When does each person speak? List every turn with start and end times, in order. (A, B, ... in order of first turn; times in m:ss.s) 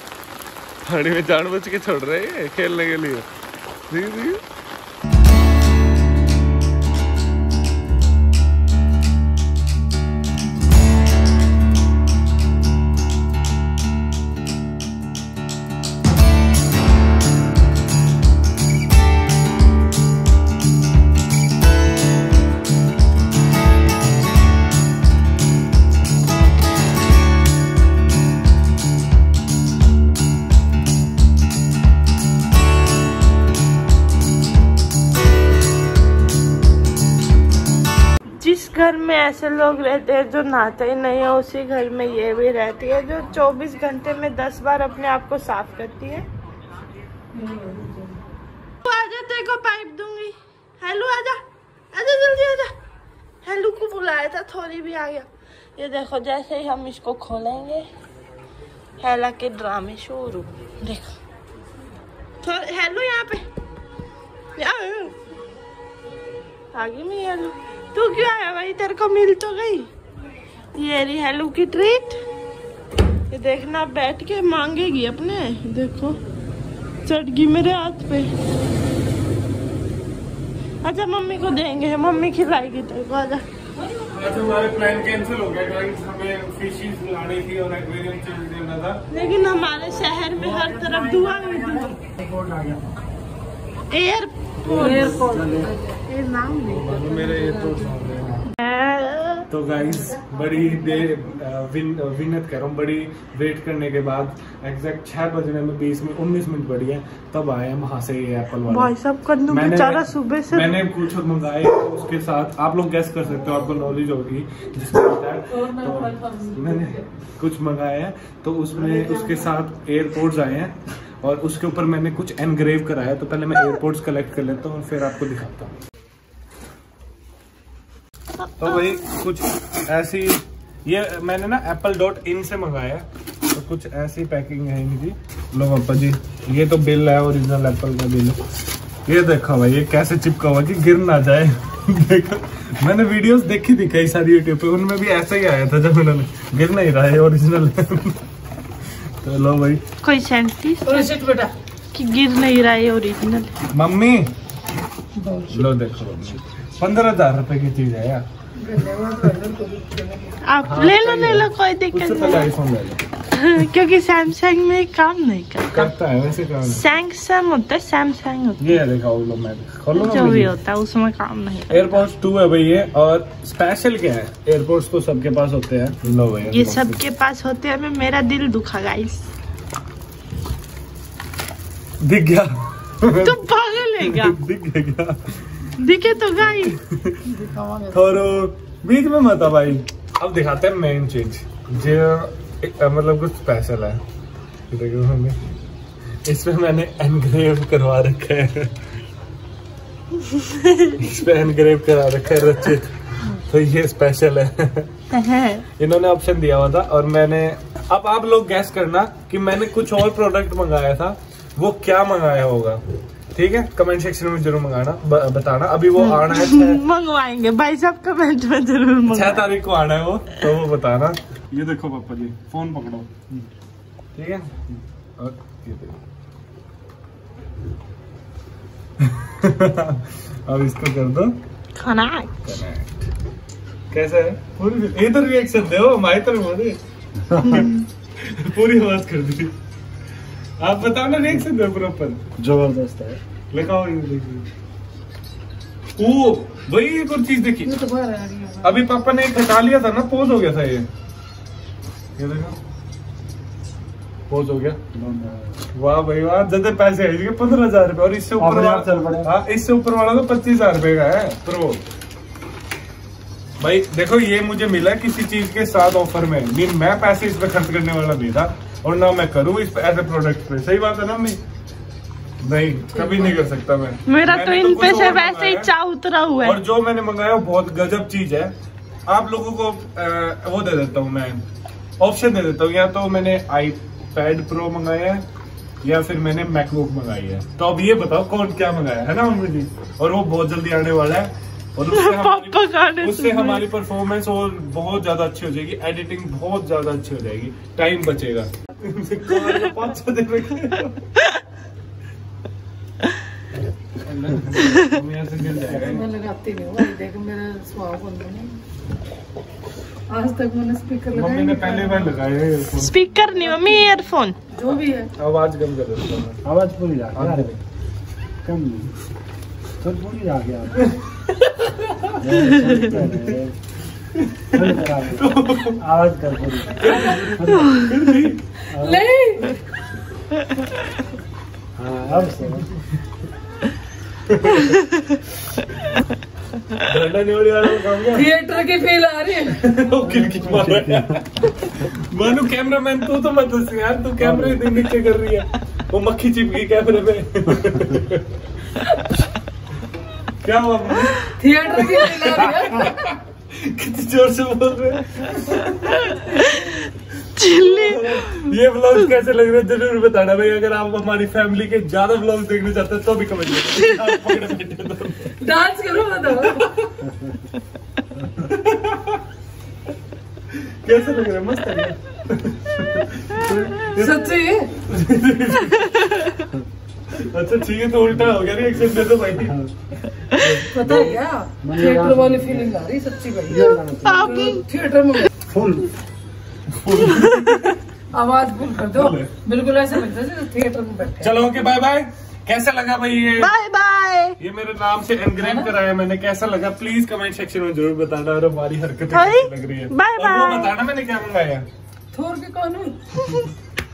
0:00.8-0:03.3 A
0:03.9-0:04.4 A
0:38.4-0:46.3 B
0:47.4-0:48.2 C
0:48.8-0:51.4 B
0:51.9-0:52.7 B
0:53.4-0:57.8 B
0:59.0-1:01.2 B
1:02.4-1:03.4 B
1:04.6-1:05.1 B
1:06.7-1:09.9 B
1:10.8-1:12.2 B
1:13.3-1:16.2 B
1:17.0-1:18.3 B
1:20.8-1:23.4 B
1:24.0-1:29.0 A
1:29.1-1:32.0 B
1:32.2-1:32.8 D
1:33.9-1:35.3 B
1:34.7-1:37.8 C
1:34.8-1:35.7 D
1:36.6-1:38.5 A
1:38.6-1:39.5 B
1:39.5-1:48.9 A
1:48.7-1:50.8 B
1:49.5-2:05.7 A
1:55.5-1:57.0 C
2:08.6-2:18.4 A
2:19.1-2:28.2 A
2:29.2-2:29.9 A
2:30.0-2:31.1 B
2:30.8-2:31.5 C
2:31.9-2:33.5 B
2:33.7-2:34.3 A
2:35.2-2:35.6 C
2:35.5-2:38.2 A
2:38.6-2:40.4 C
2:40.4-2:42.5 B
2:40.6-2:43.0 A
2:43.3-2:45.9 B
2:45.7-2:46.8 A
2:46.7-2:48.8 B
2:48.6-2:50.5 A
2:49.9-2:52.0 B
2:51.7-2:57.0 A
2:56.5-2:59.3 B
3:02.0-3:03.5 A
3:03.2-3:04.4 B
3:04.0-3:05.7 A
3:05.8-3:06.8 B
3:06.4-3:07.3 A
3:07.3-3:08.2 C
3:07.9-3:14.0 A
3:14.7-3:15.4 A
3:16.3-3:18.8 A
3:20.3-3:21.0 B
3:21.0-3:24.9 A
3:25.1-3:25.7 B
3:25.8-3:32.8 A
3:33.3-3:36.8 A
3:36.0-3:39.6 B
3:39.1-3:43.2 A
3:44.2-3:46.0 A
3:49.0-3:51.4 A
3:51.8-3:52.3 B
3:52.4-3:53.1 A
3:53.9-3:56.8 A
3:57.3-3:59.5 A
4:00.6-4:02.2 A
4:02.4-4:03.2 D
4:03.5-4:04.5 A
4:06.0-4:07.8 A
4:07.6-4:08.8 C
4:08.6-4:10.9 A
4:12.2-4:12.6 A
4:14.3-4:14.8 A
4:14.8-4:15.6 D
4:15.7-4:21.8 A
4:18.4-4:19.3 D
4:23.6-4:31.4 A
4:32.4-4:35.7 A
4:33.0-4:33.3 C
4:34.1-4:36.6 B
4:36.4-4:38.5 A
4:39.1-4:41.4 A
4:42.0-4:45.2 A
4:45.8-5:01.2 A
4:51.9-4:53.7 B
5:04.0-5:06.1 A
5:05.6-5:08.6 C
5:10.1-5:12.1 C
5:11.1-5:13.0 A
5:12.8-5:14.4 B
5:13.1-5:15.1 C
5:15.2-5:16.4 A
5:16.4-5:17.6 D
5:17.1-5:17.5 A
5:18.4-5:18.9 D
5:19.8-5:20.9 D
5:20.8-5:22.3 A
5:22.2-5:23.6 D
5:24.2-5:25.8 A
5:24.5-5:27.8 D
5:26.7-5:28.5 A
5:28.7-5:29.6 C
5:28.7-5:29.0 D
5:31.8-5:32.7 D
5:34.3-5:34.8 A
5:36.8-5:38.3 A
5:38.0-5:39.8 C
5:39.5-5:48.3 A
5:40.1-5:41.2 D
5:44.2-5:44.6 D
5:50.4-6:05.4 A
5:51.4-5:53.0 C
5:57.4-5:58.5 B
6:05.4-6:06.7 C
6:06.5-6:07.0 A
6:08.4-6:09.2 A
6:10.5-6:14.3 A
6:13.9-6:14.7 C
6:14.8-6:16.4 A
6:15.8-6:16.4 B
6:17.1-6:19.6 A
6:19.4-6:19.7 D
6:20.3-6:21.1 A
6:20.7-6:25.3 C
6:20.8-6:22.8 D
6:23.5-6:24.4 D
6:24.0-6:24.6 B
6:25.5-6:25.9 D
6:26.7-6:27.8 A
6:27.1-6:27.6 B
6:28.1-6:31.3 C
6:28.8-6:29.3 A
6:31.2-6:33.5 A
6:33.4-6:34.4 B
6:34.4-6:41.7 A
6:35.4-6:35.7 C
6:39.1-6:40.7 B
6:42.1-6:43.1 C